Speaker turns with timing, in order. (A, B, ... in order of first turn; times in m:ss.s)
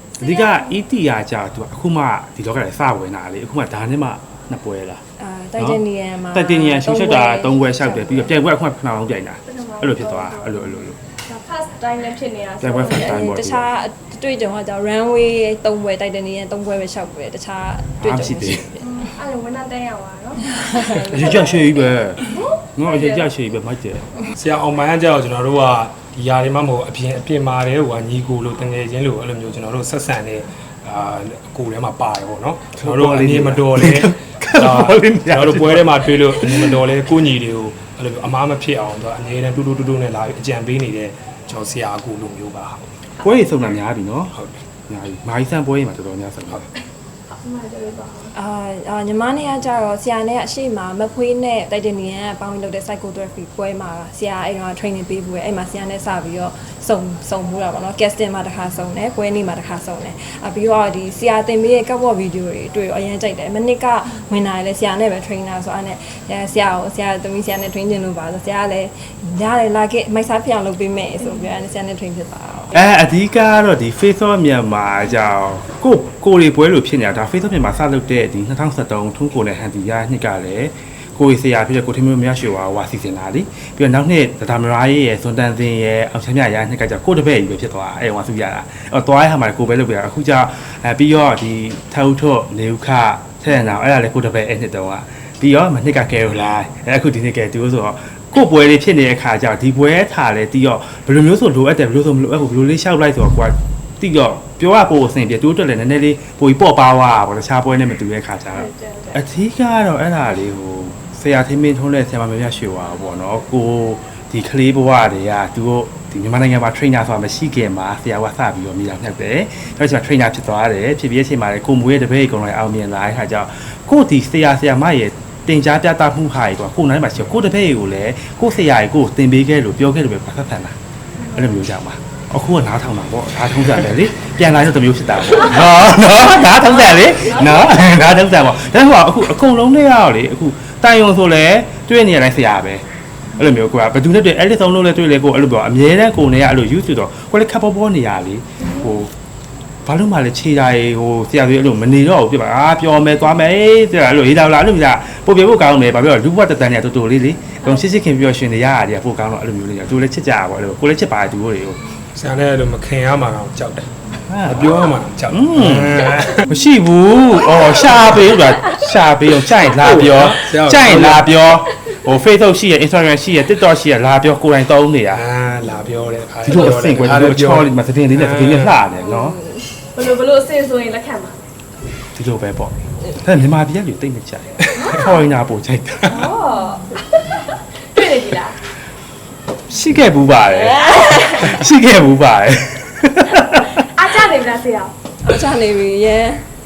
0:00.2-0:05.0 A
0:00.2-0:00.8 B
0:05.2-0:08.4 C
0:05.6-0:11.0 A
0:09.5-0:10.6 B
0:11.2-0:13.2 B
0:12.6-0:13.7 A
0:12.8-0:19.0 C
0:18.0-0:18.7 A
0:18.8-0:21.4 B
0:20.6-0:21.3 C
0:21.0-0:22.2 A
0:22.2-0:23.3 B
0:22.8-0:24.1 A
0:24.3-0:42.9 D
0:32.8-0:36.8 A
0:43.2-0:44.3 A
0:44.9-0:46.7 A
0:47.3-0:48.3 B
0:48.3-1:12.7 C
1:11.2-1:11.5 B
1:12.7-2:10.8 A
1:48.6-1:49.2 B
2:11.2-2:11.5 B
2:11.4-2:22.8 A
2:16.9-2:17.8 B
2:23.4-2:29.1 A
2:29.8-2:41.8 A
2:42.2-2:43.9 D
2:44.3-2:44.7 A
2:44.4-2:46.5 D
2:45.3-2:55.2 A
2:49.6-2:51.4 D
2:55.1-2:58.8 D
2:56.4-2:59.4 A
2:59.1-2:59.6 C
2:59.9-3:01.4 B
3:02.2-3:06.2 A
3:04.7-3:05.2 B
3:06.0-3:08.6 B
3:09.7-3:13.8 A
3:10.7-3:11.5 C
3:13.8-3:15.0 B
3:15.2-3:16.4 C